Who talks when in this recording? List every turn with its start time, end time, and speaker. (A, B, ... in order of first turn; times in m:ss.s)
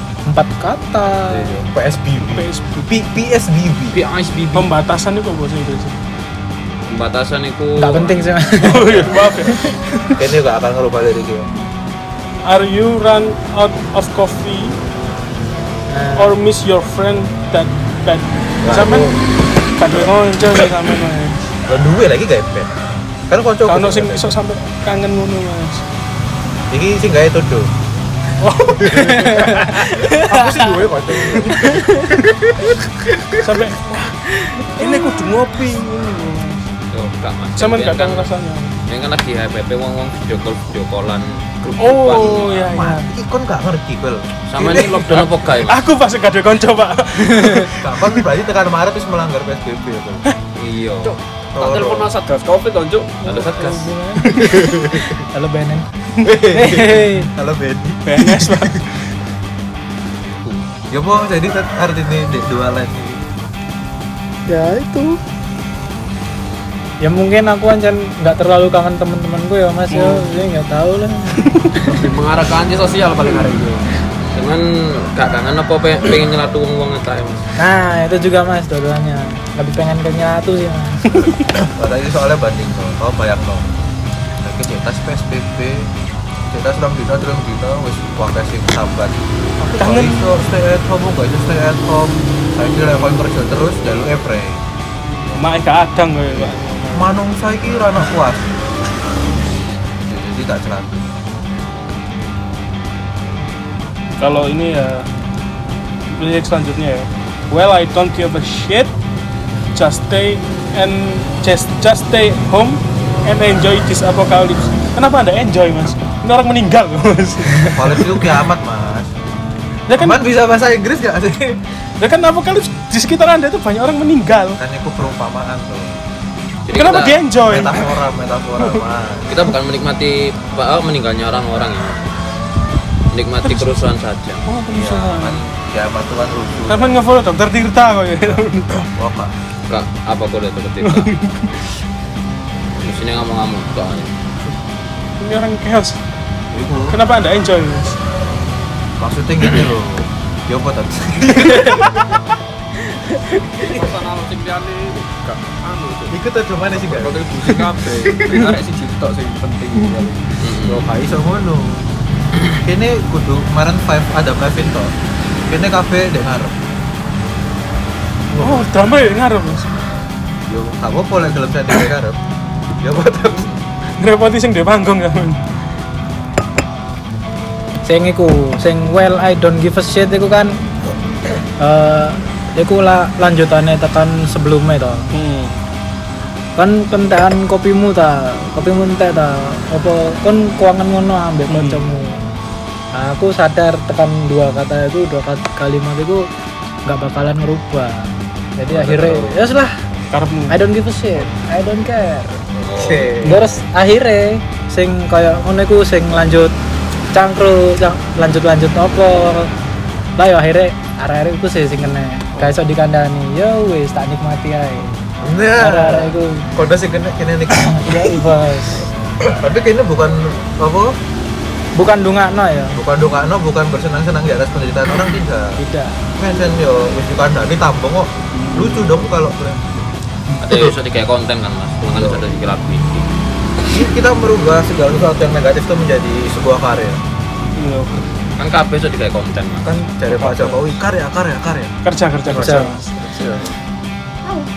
0:00.3-0:01.6 A
0:01.3-0:04.0 B
0:02.2-0:03.0 C
0:03.9-0:04.7 D
0:04.5-0:06.0 C
0:06.9-0:09.1 D
0:07.8-0:09.8 A
0:08.6-0:10.2 C
0:10.2-0:11.5 B
0:12.4-0:14.8 C
0:15.9-0:16.4 A
0:16.2-0:21.4 C
0:18.6-0:19.2 B
0:21.7-0:22.7 B
0:23.3-0:24.3 B
0:23.7-0:25.9 C
0:26.7-0:27.7 B
0:28.4-0:29.7 C
0:28.6-0:33.5 B
0:28.9-0:30.8 A
0:31.4-0:32.2 A
0:33.4-0:34.1 C
0:34.2-0:35.4 A
0:34.8-0:36.6 C
0:36.9-0:38.3 D
0:37.6-0:38.8 C
0:38.9-0:42.8 D
0:41.8-0:43.1 C
0:42.1-0:45.2 B
0:44.5-0:45.9 D
0:44.6-0:48.2 C
0:47.8-0:50.2 B
0:50.6-0:51.2 D
0:51.0-0:53.7 E
0:51.5-0:52.1 B
0:53.2-0:54.8 A
0:53.2-0:53.9 D
0:54.2-0:54.8 C
0:54.4-0:55.2 B
0:55.3-0:55.9 A
0:56.2-0:58.8 B
0:56.4-0:57.3 A
0:58.0-0:59.0 C
1:00.2-1:03.2 B
1:04.5-1:05.2 A
1:07.0-1:11.4 A
1:09.9-1:10.3 C
1:11.4-1:11.8 C
1:11.8-1:13.8 E
1:14.3-1:17.5 D
1:17.6-1:21.3 A
1:21.1-1:21.4 C
1:21.8-1:23.6 B
1:24.4-1:25.9 B
1:26.5-1:34.6 B
1:29.6-1:30.4 C
1:35.3-1:37.1 C
1:36.4-1:38.6 B
1:40.1-1:41.1 B
1:44.2-1:45.1 C
1:46.2-1:48.9 C
1:49.8-1:58.4 C
1:57.7-1:59.1 B
1:59.9-2:00.2 C
2:00.0-2:01.6 B
2:02.0-2:04.6 C
2:04.6-2:06.0 B
2:06.7-2:07.2 D
2:06.7-2:08.0 C
2:07.5-2:09.4 B
2:09.3-2:12.2 D
2:13.1-2:14.5 D
2:13.4-2:13.8 C
2:14.5-2:15.4 C
2:14.7-2:17.0 B
2:16.7-2:18.9 C
2:19.0-2:19.3 B
2:19.7-2:21.1 D
2:20.8-2:21.6 C
2:22.8-2:24.1 D
2:25.2-2:26.0 C
2:26.5-2:27.0 B
2:26.9-2:28.0 C
2:29.0-2:32.0 B
2:31.6-2:31.8 C
2:32.8-2:33.8 A
2:33.6-2:36.2 E
2:36.1-2:38.5 B
2:36.8-2:40.3 E
2:40.4-2:40.9 D
2:40.6-2:41.8 B
2:42.6-2:44.9 B
2:45.5-2:46.6 B
2:48.3-2:48.7 B
2:48.4-2:49.7 C
2:50.5-2:52.2 B
2:52.8-2:53.5 B
2:54.0-2:55.4 C
2:57.8-3:00.6 A
3:01.6-3:05.1 A
3:05.1-3:05.6 C
3:06.6-3:12.2 A
3:11.5-3:11.9 C
3:13.0-3:16.3 A
3:16.9-3:19.8 A
3:18.8-3:19.4 D
3:20.1-3:20.6 C
3:20.5-3:22.4 A
3:22.6-3:23.2 D
3:22.7-3:23.5 B
3:23.2-3:26.5 A
3:27.1-3:29.5 A
3:30.2-3:34.9 A
3:35.2-3:38.2 B
3:35.6-3:36.5 A
3:37.6-3:38.9 A
3:39.2-3:41.0 B
3:41.8-3:42.8 A
3:42.7-3:45.6 B
3:45.6-3:46.0 A
3:46.2-3:49.7 B
3:48.4-3:49.0 C
3:50.4-3:53.1 D
3:51.9-3:52.3 B
3:53.7-3:57.0 B
3:57.6-3:58.0 C
3:58.4-3:59.8 D
3:59.6-4:01.8 B
4:00.1-4:00.6 C
4:01.8-4:03.2 C
4:02.3-4:02.7 B
4:02.3-4:02.8 A
4:03.0-4:03.6 E